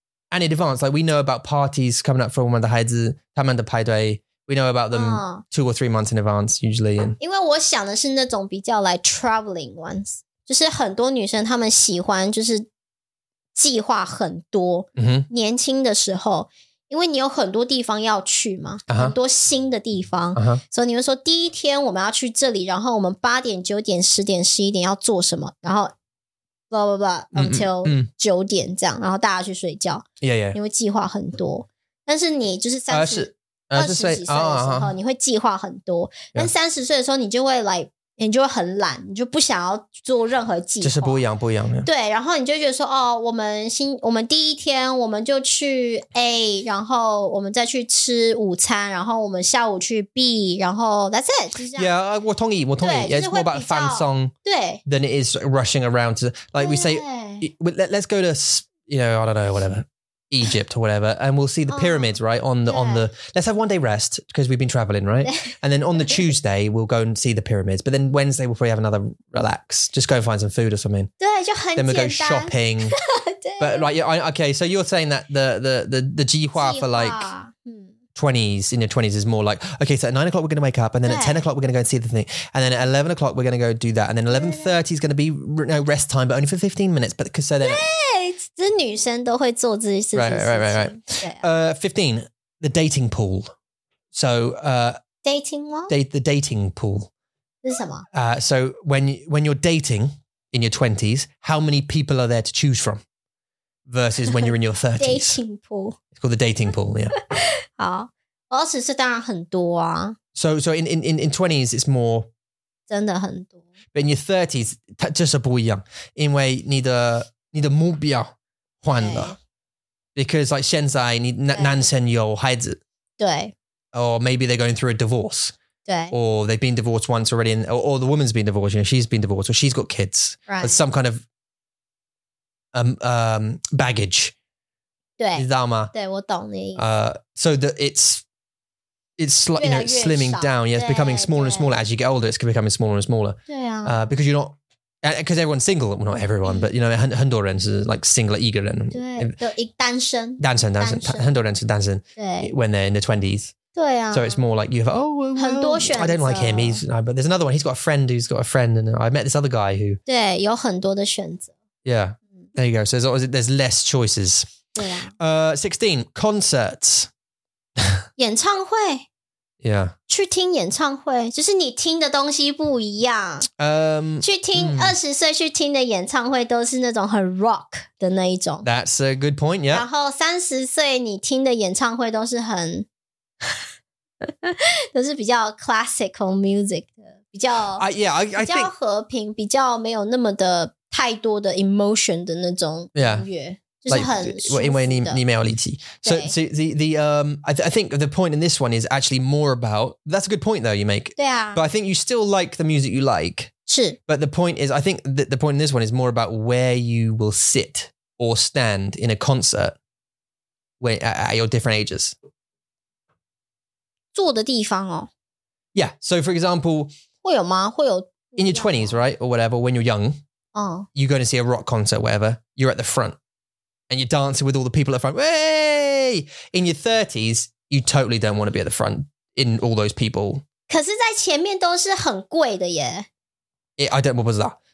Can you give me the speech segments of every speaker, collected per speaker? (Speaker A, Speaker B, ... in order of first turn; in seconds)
Speaker A: 0.3-7.2, 15.0-15.3, 18.9-19.1, 20.3-20.6, 27.3-28.1, 30.2-30.6, 32.9-34.9, 40.8-41.9, 51.8-54.3, 54.9-71.1, 71.8-73.0, 73.6-77.3, 78.2-87.9, 90.1-93.5, 94.1-95.0, 95.9-97.1, 98.1-103.0, 103.9-105.4, 106.1-107.1, 110.3-112.3, 113.9-119.3, 120.2-122.8, 123.9-125.5, 126.1-131.2, 132.7-134.3, 135.3-135.9, 136.8-138.2, 139.2-149.3, 150.4-153.5, 154.1-160.0, 161.8-164.5, 165.2-167.1, 169.6-169.9, 173.6-174.9, 178.6-179.8, 187.8-188.7, 192.9-193.2, 193.9-203.5, 204.1-209.8, 210.8-212.2, 215.7-216.9, 218.4-220.2, 220.9-223.2, 223.9-230.4, 233.8-234.6
Speaker B: 4.9-5.4, 7.2-12.7, 13.5-25.9, 26.7-41.2, 41.8-51.9, 52.8-54.8, 56.6-57.5, 61.7-63.0, 65.2-65.5, 71.2-73.9, 76.5-77.9, 81.0-81.4, 84.3-84.8, 87.6-91.5, 95.2-95.9, 97.6-98.1, 105.0-106.0, 107.1-110.2, 112.9-113.6, 118.9-119.3, 121.5-121.9, 123.2-123.5, 125.8-126.1, 130.5-130.8, 135.2-136.8, 139.6-141.7, 143.5-144.1, 148.9-151.3, 152.2-152.5, 153.7-154.4, 155.4-156.8, 160.1-161.5, 164.7-165.1, 168.2-169.1, 170.1-173.5, 174.2-178.7, 179.7-182.9, 184.2-195.2, 196.0-196.3, 201.2-201.6, 203.7-204.0, 214.1-215.1, 217.2-219.0, 220.5-220.9, 230.7-233.1